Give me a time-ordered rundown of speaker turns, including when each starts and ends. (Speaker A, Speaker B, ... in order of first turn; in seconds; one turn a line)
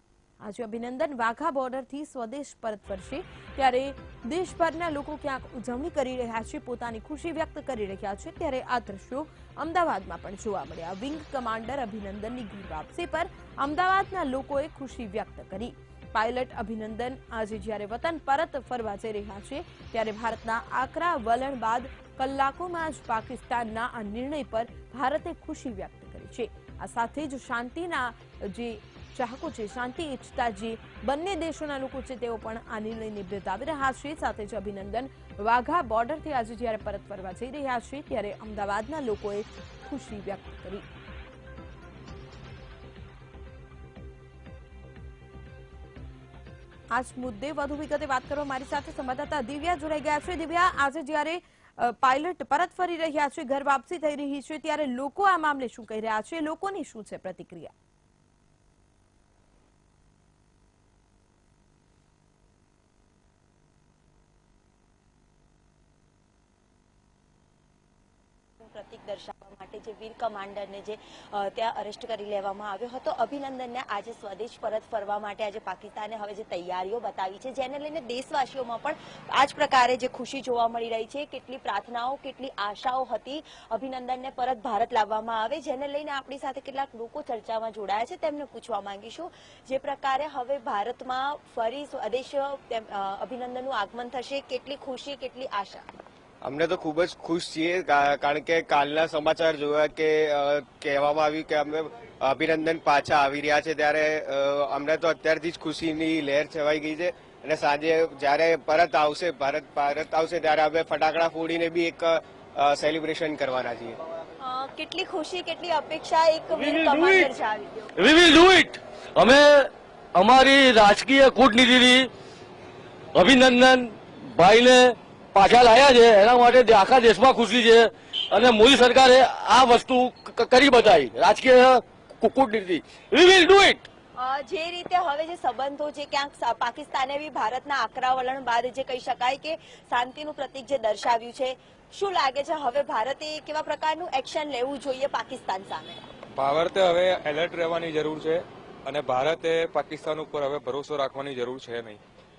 Speaker A: 0.4-40.9
Speaker A: 46.9-57.7
Speaker B: 68.6-95.9
Speaker C: 96.4-114.0
Speaker B: 114.4-117.9
Speaker D: 116.7-117.3
Speaker D: 118.0-122.1
Speaker D: 123.2-133.9
Speaker B: 134.2-146.0
Speaker E: 146.4-152.0